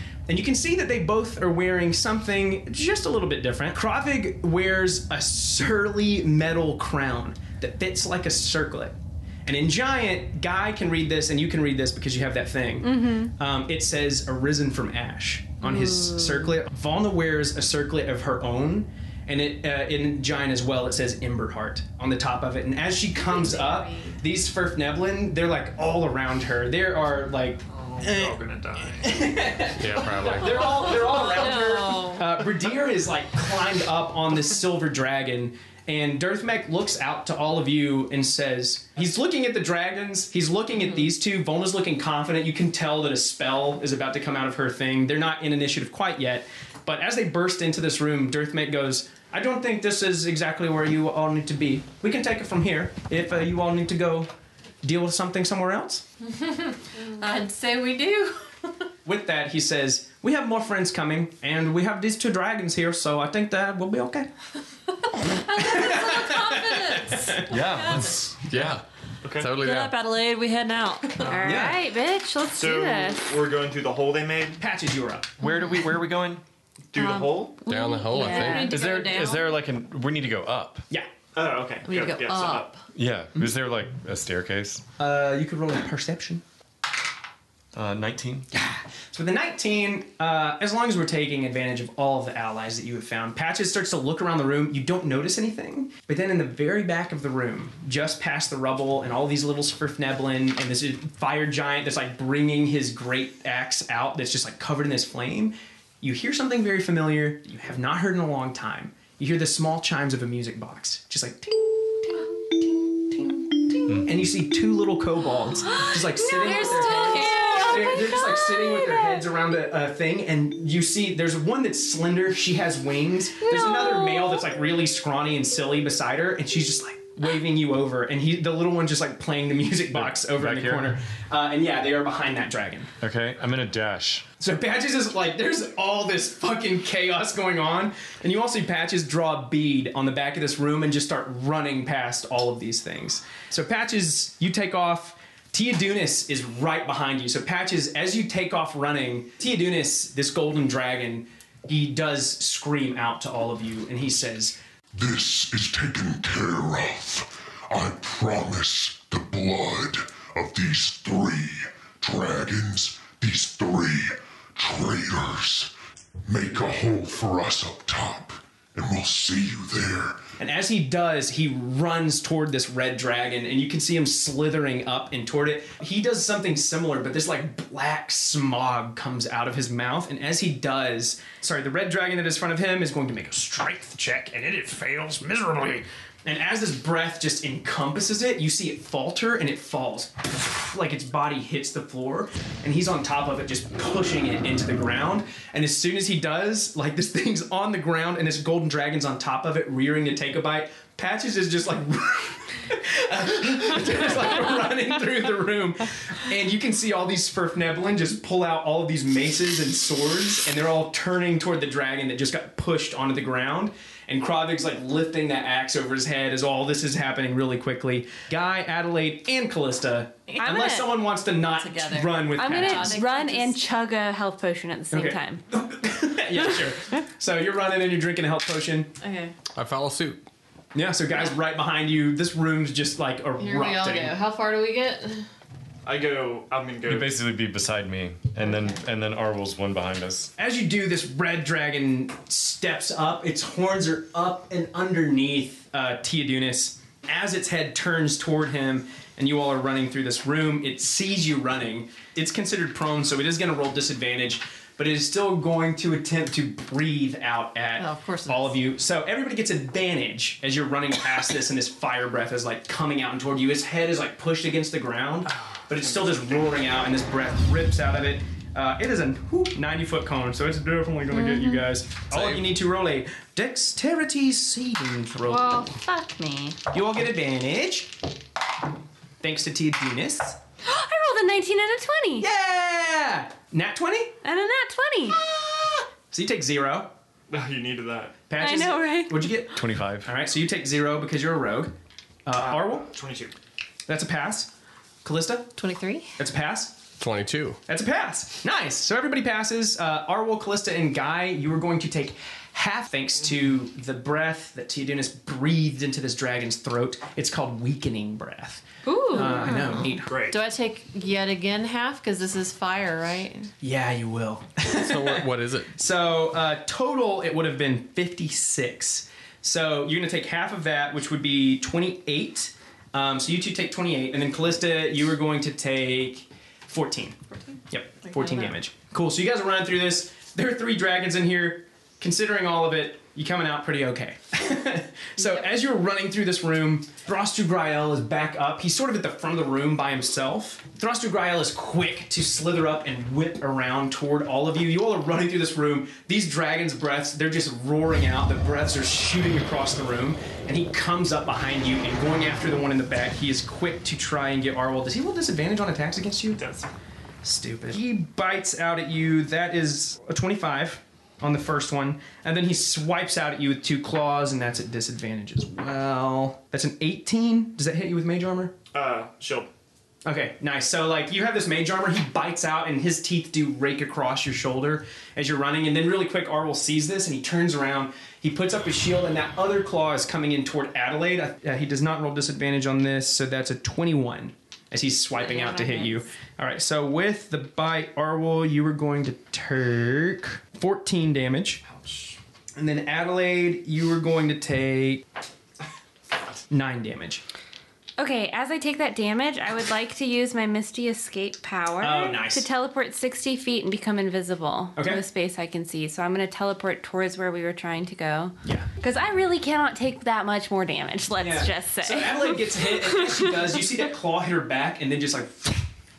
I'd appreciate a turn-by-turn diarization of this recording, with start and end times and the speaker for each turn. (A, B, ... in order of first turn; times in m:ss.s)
0:00.3-0:08.9 A
0:09.4-0:28.4 A
0:12.8-0:13.3 B
0:15.6-0:16.5 B
0:23.4-0:23.8 B
0:27.7-0:30.6 C
0:29.0-0:54.3 A
0:29.8-0:30.9 D
0:30.6-0:32.2 E
0:54.8-0:56.0 A
0:56.3-0:58.5 E
0:59.0-1:04.3 A
1:05.2-1:07.5 A
1:05.3-1:08.2 E
1:07.5-1:08.8 D
1:08.4-1:08.8 F
1:09.2-1:09.5 C
1:09.4-1:09.9 F
1:09.5-1:11.6 E
1:11.2-1:11.6 C
1:11.2-1:13.2 B
1:11.4-1:11.8 A
1:12.5-1:14.6 C
1:14.6-1:15.3 A
1:15.4-1:16.4 D
1:16.9-1:17.6 C
1:16.9-1:19.5 E
1:17.6-1:18.7 F
1:17.8-1:18.7 B
1:18.5-1:20.8 D
1:21.3-1:22.7 C
1:21.8-1:22.8 E
1:22.9-1:24.8 D
1:25.0-1:26.4 A
1:27.7-1:28.4 D
1:28.5-2:12.9 A
1:56.2-1:59.2 B
1:56.3-1:58.2 E
2:03.4-2:04.4 B
2:09.9-2:11.0 D
2:13.0-2:14.2 D
2:14.4-2:34.6 A
2:34.9-2:45.7 G
2:46.2-2:50.2 G
2:50.4-3:43.0 A
3:40.3-3:40.9 E
3:40.4-3:40.8 B
3:41.4-3:43.6 E
3:42.4-3:45.4 B
3:44.9-3:48.9 A
3:49.0-3:49.3 E
3:49.5-3:50.2 F
3:50.7-3:54.1 A
3:53.4-3:55.2 E
3:55.8-3:57.2 C
3:56.8-4:00.3 D
3:58.4-3:58.8 E
4:00.4-4:35.7 A
4:17.8-4:18.5 E
4:25.7-4:26.5 C
4:31.1-4:31.6 B
4:32.1-4:32.4 D
4:35.3-4:36.6 B
4:35.5-4:36.5 E
4:36.7-4:37.9 A
4:39.2-4:40.4 A
4:40.6-4:42.2 B
4:42.2-4:44.1 A
4:44.2-4:45.2 B
4:46.1-4:46.9 A
4:47.3-4:48.2 C
4:48.3-4:51.7 A
4:48.4-4:49.3 B
4:49.5-4:50.1 D
4:52.2-4:52.9 A
4:52.3-4:53.3 C
4:53.9-4:54.5 A
4:55.0-4:55.5 A
4:55.6-4:56.1 E
4:56.2-4:56.8 A
4:57.0-4:57.6 F
4:57.7-5:10.1 A
5:08.8-5:09.6 B
5:08.9-5:13.5 E
5:10.0-5:10.4 C
5:13.6-5:27.2 A
5:14.6-5:15.7 F
5:27.7-5:56.4 A
5:28.1-5:28.4 E
5:56.3-5:56.7 C
5:57.2-6:08.5 A
6:08.7-6:09.5 C
6:10.0-6:31.6 A
6:25.1-6:26.0 B
6:31.6-6:32.2 C
6:32.6-6:35.0 A
6:36.5-6:37.2 A
6:38.0-6:53.2 B
6:41.8-6:42.5 A
6:44.8-6:45.0 A
6:51.2-6:55.6 A